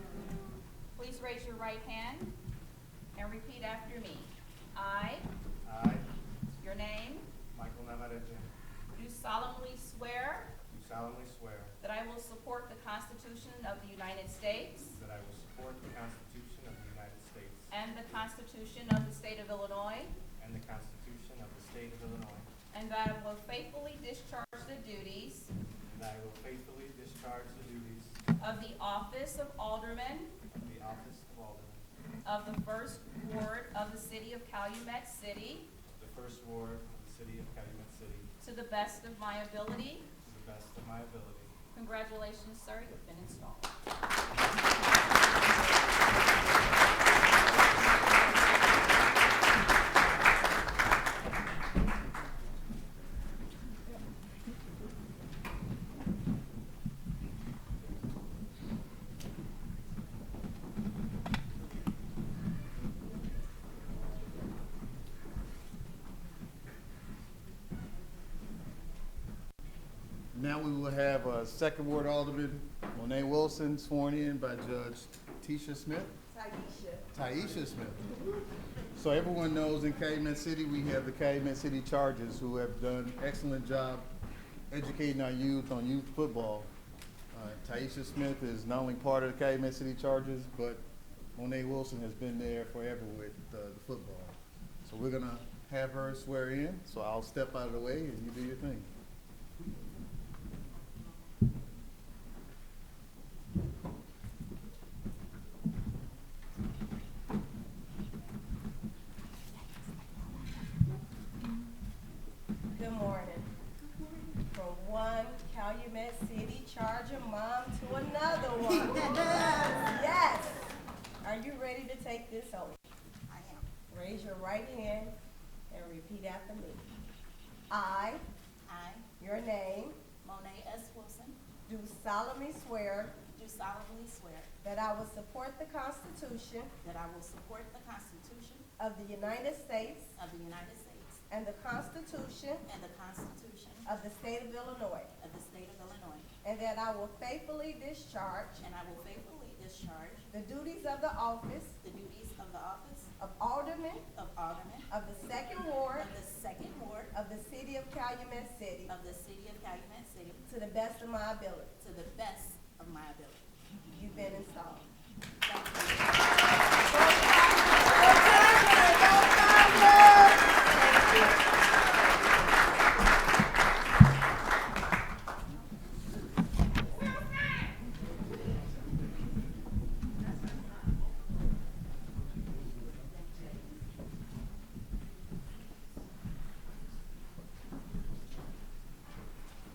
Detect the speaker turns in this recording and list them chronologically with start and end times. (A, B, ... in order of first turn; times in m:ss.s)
0:01.0-0:02.3 A
0:03.2-0:05.2 A
0:05.6-0:06.0 B
0:06.6-0:07.3 A
0:07.5-0:08.5 B
0:08.9-0:10.5 A
0:10.7-0:11.7 B
0:11.8-0:15.0 A
0:14.9-0:17.7 B
0:17.7-0:20.1 A
0:20.4-0:22.5 B
0:22.7-0:25.5 A
0:25.8-0:28.2 B
0:28.4-0:30.3 A
0:30.6-0:31.8 B
0:32.2-0:35.7 A
0:35.8-0:38.3 B
0:38.4-0:40.1 A
0:40.2-0:41.5 B
0:41.7-0:43.7 A
1:10.3-1:16.1 C
1:16.3-1:17.1 D
1:17.1-1:18.0 C
1:18.9-1:24.1 C
1:24.7-1:26.7 C
1:27.3-1:30.8 C
1:31.4-1:38.9 C
1:52.7-1:53.5 D
1:54.5-2:02.8 D
2:03.3-2:03.6 E
2:03.9-2:05.1 D
2:05.7-2:06.8 D
2:07.7-2:08.2 D
2:08.7-2:09.0 E
2:09.2-2:10.0 D
2:10.2-2:11.4 E
2:11.7-2:13.2 D
2:13.3-2:14.5 E
2:14.6-2:16.7 D
2:16.8-2:18.6 E
2:18.8-2:20.2 D
2:20.2-2:21.2 E
2:21.3-2:22.6 D
2:22.7-2:23.8 E
2:23.8-2:25.1 D
2:25.2-2:26.3 E
2:26.4-2:28.6 D
2:28.6-2:30.2 E
2:30.3-2:31.8 D
2:31.8-2:33.1 E
2:33.2-2:34.0 D
2:34.1-2:34.8 E
2:34.9-2:36.1 D
2:36.0-2:37.1 E
2:37.1-2:38.9 D
2:38.9-2:40.4 E
2:40.5-2:41.8 D
2:41.8-2:43.4 E
2:43.9-2:44.9 D
2:45.4-2:46.0 E
2:46.8-2:51.3 D